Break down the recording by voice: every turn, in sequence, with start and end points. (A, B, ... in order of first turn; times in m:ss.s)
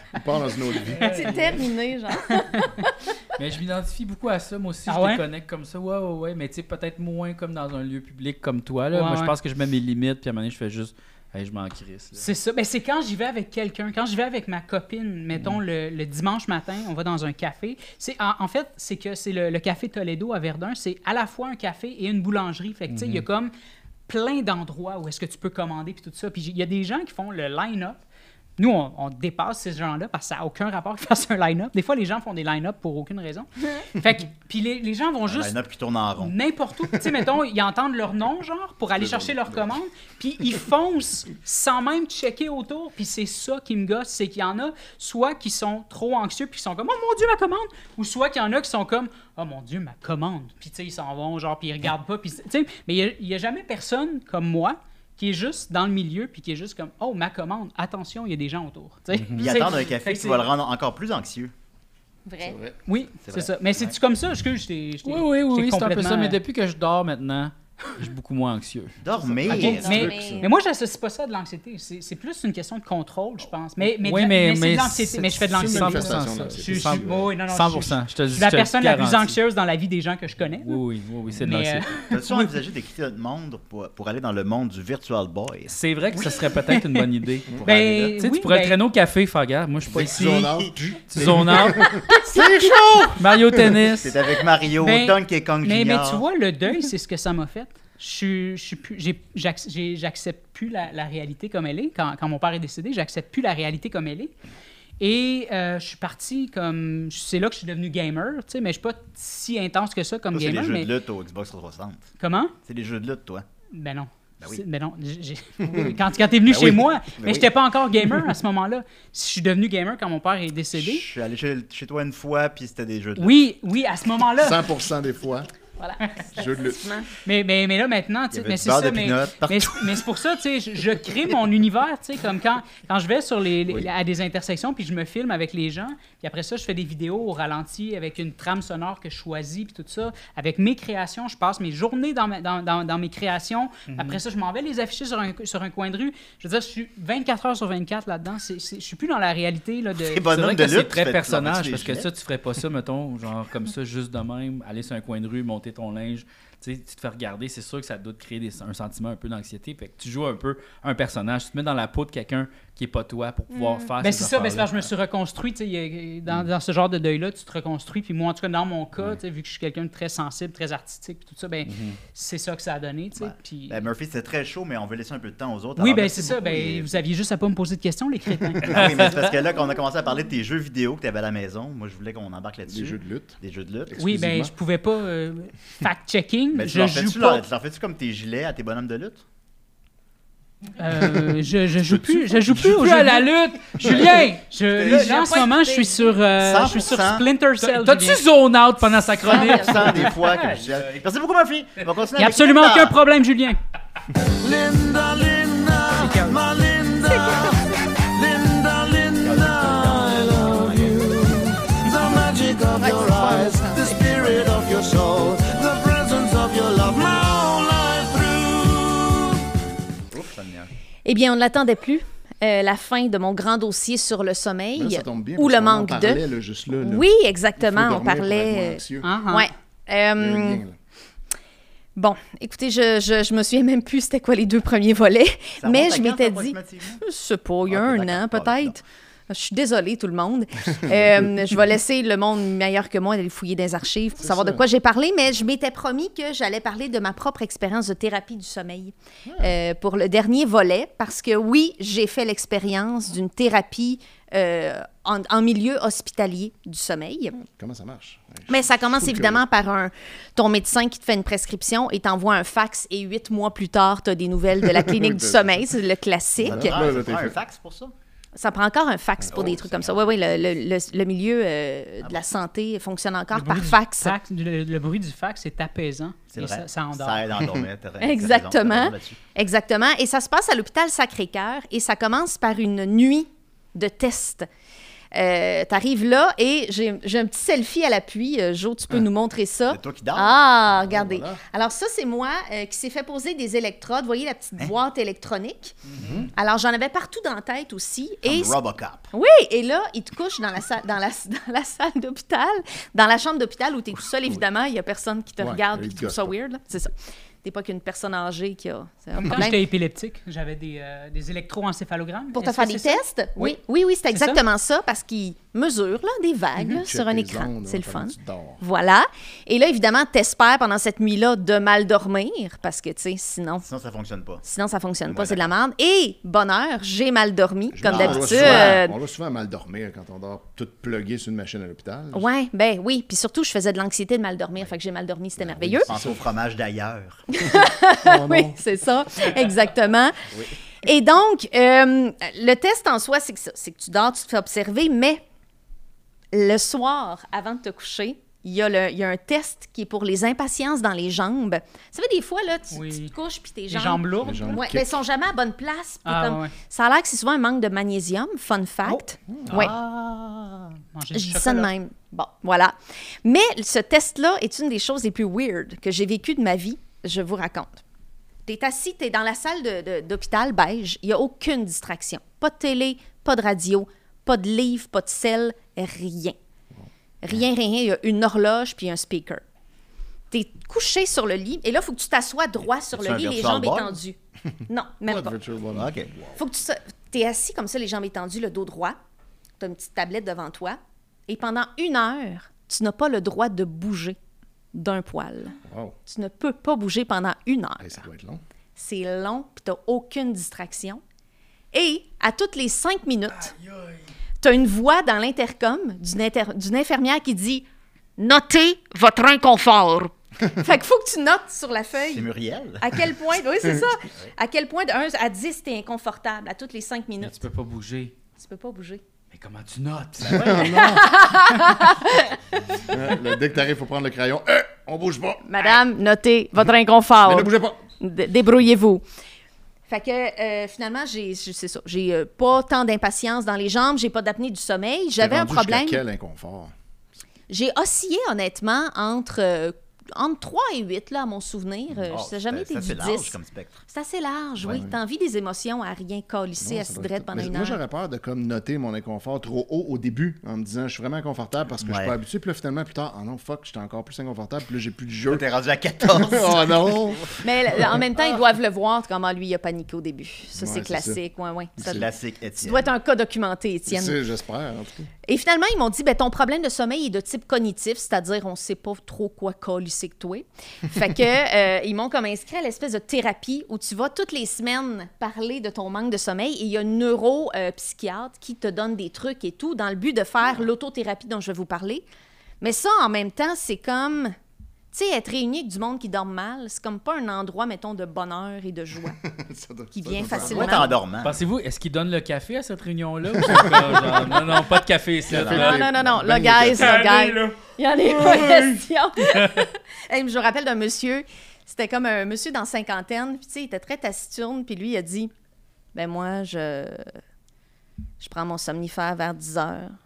0:00.1-0:01.2 A
0:01.0-0:02.9 B
0:01.0-0:01.5 C
0:02.3-0:02.8 D
0:03.4-0:12.3 C
0:04.9-0:05.2 D
0:08.9-0:09.3 D
0:12.1-0:23.5 D
0:22.9-0:23.2 C
0:24.1-0:28.0 D
0:28.6-0:35.6 D
0:35.2-0:36.4 E
0:36.2-1:00.5 D
0:39.0-0:39.7 A
0:59.3-1:01.5 E
1:02.2-1:02.6 B
1:02.4-1:02.8 A
1:02.8-1:06.4 D
1:03.2-1:04.0 E
1:05.0-1:09.0 C
1:09.0-1:10.2 E
1:09.2-1:10.5 A
1:09.5-1:10.5 B
1:09.5-1:20.8 D
1:13.8-1:19.4 C
1:15.5-1:17.3 A
1:20.6-1:21.9 C
1:21.4-1:22.5 D
1:22.1-1:25.8 E
1:25.7-1:32.0 C
1:26.1-1:27.0 D
1:27.6-1:28.1 E
1:27.6-1:28.8 D
1:29.9-1:32.2 A
1:32.1-1:33.2 E
1:33.2-1:34.2 C
1:33.9-1:36.2 E
1:34.8-1:44.3 D
1:45.0-1:50.9 D
1:50.3-1:52.1 E
1:52.2-1:52.5 D
1:52.6-1:53.4 E
1:53.7-2:01.0 D
1:56.4-1:57.6 E
2:00.7-2:03.5 E
2:03.2-2:04.6 D
2:04.4-2:05.5 A
2:05.8-2:07.1 B
2:06.3-2:06.8 A
2:07.2-2:30.3 D
2:08.3-2:10.0 E
2:23.9-2:24.2 C
2:29.9-2:32.1 E
2:30.3-2:44.9 C
2:44.0-2:53.8 D
2:51.7-2:52.0 C
2:53.2-2:57.0 E
2:55.8-2:59.0 D
2:58.6-3:04.0 E
2:58.7-2:59.3 C
3:02.7-3:04.5 A
3:04.0-3:07.4 D
3:06.5-3:09.2 E
3:10.8-3:18.2 D
3:12.4-3:15.8 C
3:14.7-3:15.5 E
3:16.3-3:17.3 E
3:17.6-3:20.9 C
3:19.2-3:23.0 E
3:19.2-3:19.9 B
3:19.9-3:20.4 D
3:22.2-3:23.6 D
3:24.3-3:39.4 F
3:26.0-3:26.4 D
3:29.2-3:30.9 E
3:32.8-3:34.0 B
3:40.1-3:40.7 E
3:41.0-3:46.2 B
3:44.7-3:49.1 A
3:46.8-3:50.6 B
3:49.0-3:49.5 D
3:50.2-3:50.8 A
3:52.0-4:17.4 B
3:55.6-3:57.0 E
3:57.7-3:58.8 E
4:00.8-4:01.3 A
4:04.2-4:04.6 A
4:09.2-4:09.5 A
4:17.4-4:19.4 A
4:18.5-4:26.8 B
4:24.6-4:25.6 A
4:26.4-4:27.4 A
4:26.4-4:27.9 E
4:28.4-4:34.2 B
4:29.2-4:29.6 A
4:29.3-4:30.1 E
4:33.3-4:37.2 D
4:36.3-4:39.2 E
4:38.0-4:44.5 B
4:45.1-4:55.8 B
4:49.7-4:50.4 E
4:50.7-4:51.4 A
4:56.0-4:56.3 A
4:56.3-4:58.6 B
4:58.2-4:59.1 E
4:59.1-5:06.9 B
5:05.4-5:06.3 A
5:07.4-5:09.6 B
5:09.2-5:13.6 D
5:12.3-5:23.6 B
5:14.1-5:14.4 D
5:16.8-5:18.6 A
5:23.6-5:24.4 E
5:24.4-5:29.0 B
5:25.1-5:25.5 E
5:27.7-5:32.3 A
5:27.8-5:28.8 E
5:32.1-5:35.9 B
5:35.4-5:36.2 A
5:35.9-5:37.2 E
5:37.3-5:40.2 B
5:38.0-5:38.6 A
5:40.8-5:45.2 B
5:46.3-5:59.7 B
5:52.7-5:53.1 D
5:53.7-5:54.5 D
5:54.2-5:55.0 A
5:56.0-5:56.5 D
5:59.3-5:59.7 A
5:59.5-6:00.7 E
6:00.9-6:01.7 D
6:01.1-6:07.8 B
6:08.4-6:16.4 B
6:17.2-6:19.4 B
6:20.3-6:25.3 B
6:22.9-6:24.0 E
6:25.0-6:26.4 A
6:25.7-6:26.1 E
6:26.3-6:29.0 B
6:29.6-6:34.2 B
6:34.7-6:38.0 B
6:35.6-6:36.0 A
6:37.8-6:38.4 A
6:38.8-6:41.0 B
6:41.7-6:43.5 B
6:43.5-6:44.0 C
6:44.4-6:47.7 B
6:48.2-6:57.4 B
6:52.0-6:53.0 E
6:57.2-6:58.1 C
6:58.4-6:59.0 B
6:59.3-7:00.7 C
7:00.2-7:01.1 A
7:00.2-7:00.8 E
7:00.5-7:02.8 B
7:02.9-7:05.4 A
7:05.4-7:09.0 B
7:07.2-7:07.8 A
7:09.9-7:16.0 B
7:15.2-7:16.7 A
7:17.5-7:27.8 B
7:22.1-7:23.8 E
7:24.6-7:24.9 A
7:26.6-7:35.5 A
7:31.8-7:32.1 E
7:35.3-7:37.4 E
7:36.0-7:38.0 A
7:37.4-7:42.1 B
7:40.6-7:41.2 A
7:41.8-7:42.0 A
7:41.8-7:42.9 E
7:42.6-7:44.2 B
7:43.9-7:45.1 A
7:45.2-8:02.0 B
8:02.6-8:04.4 B
8:04.9-8:09.2 B
8:09.2-8:10.9 A
8:09.9-8:10.9 B
8:10.3-8:11.4 E
8:11.2-8:17.5 C
8:13.4-8:14.4 A
8:15.3-8:17.0 A
8:15.4-8:25.3 B
8:18.2-8:19.6 C
8:25.9-8:27.1 B
8:28.2-8:30.0 B